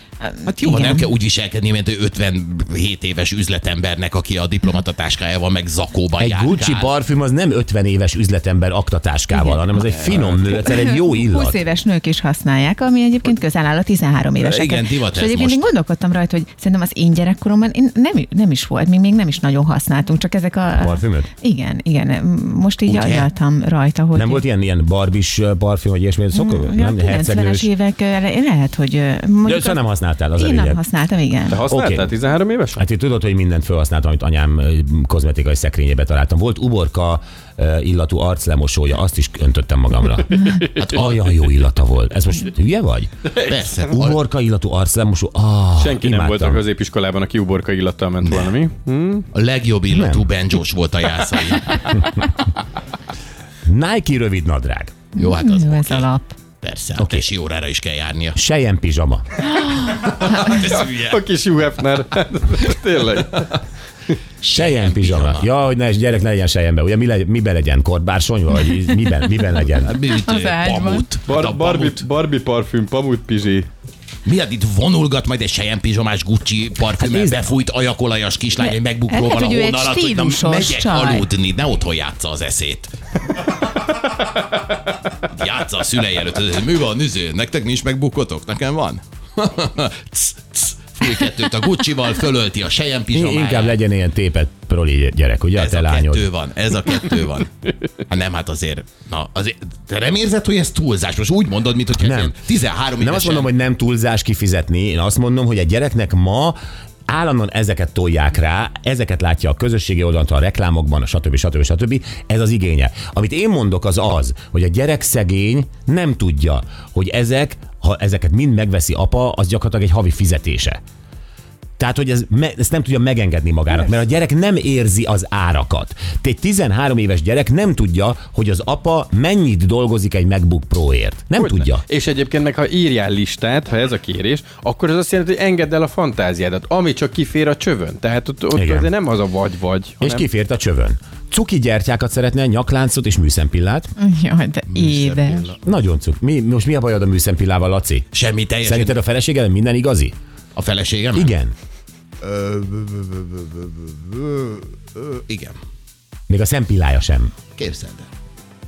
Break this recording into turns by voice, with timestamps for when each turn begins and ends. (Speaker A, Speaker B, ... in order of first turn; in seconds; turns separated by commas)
Speaker A: 0.2-1.1, Speaker B: 0.5-6.9, Speaker C: 6.2-11.6, Speaker A: 9.3-24.4, Speaker B: 14.4-15.6, Speaker C: 20.7-21.3, Speaker B: 22.9-23.3, Speaker C: 24.1-27.7, Speaker A: 26.3-29.8, Speaker C: 29.4-30.8, Speaker A: 30.3-31.6, Speaker D: 31.5-32.8, Speaker C: 31.7-32.1, Speaker C: 32.8-43.2, Speaker B: 43.4-44.2, Speaker C: 43.8-46.7, Speaker D: 45.8-49.2, Speaker B: 48.2-48.5, Speaker B: 49.3-52.1, Speaker C: 49.9-50.2, Speaker C: 53.6-54.9, Speaker A: 55.1-56.3, Speaker B: 55.2-56.1, Speaker B: 56.6-58.4, Speaker C: 57.0-57.3, Speaker C: 58.3-59.2, Speaker A: 59.6-60.0, Speaker B: 59.9-61.2, Speaker D: 60.1-63.6, Speaker B: 64.4-65.5, Speaker C: 64.5-69.9, Speaker B: 69.8-72.0, Speaker A: 70.0-71.1, Speaker D: 71.3-73.7, Speaker B: 74.2-82.9, Speaker C: 77.0-77.5, Speaker A: 78.6-81.3, Speaker B: 85.3-93.8, Speaker C: 93.1-96.3, Speaker B: 95.6-103.5, Speaker C: 102.0-102.4, Speaker C: 103.0-106.6, Speaker C: 107.1-120.8, Speaker C: 121.8-131.8, Speaker D: 131.3-140.3, Speaker C: 138.5-138.9, Speaker C: 140.0-143.9, Speaker A: 144.0-145.5, Speaker B: 144.7-145.6, Speaker C: 145.6-148.1, Speaker B: 148.1-148.9, Speaker C: 148.6-150.1, Speaker B: 150.6-151.3, Speaker C: 151.1-151.5, Speaker B: 152.2-155.6, Speaker C: 156.3-157.3, Speaker B: 157.6-158.1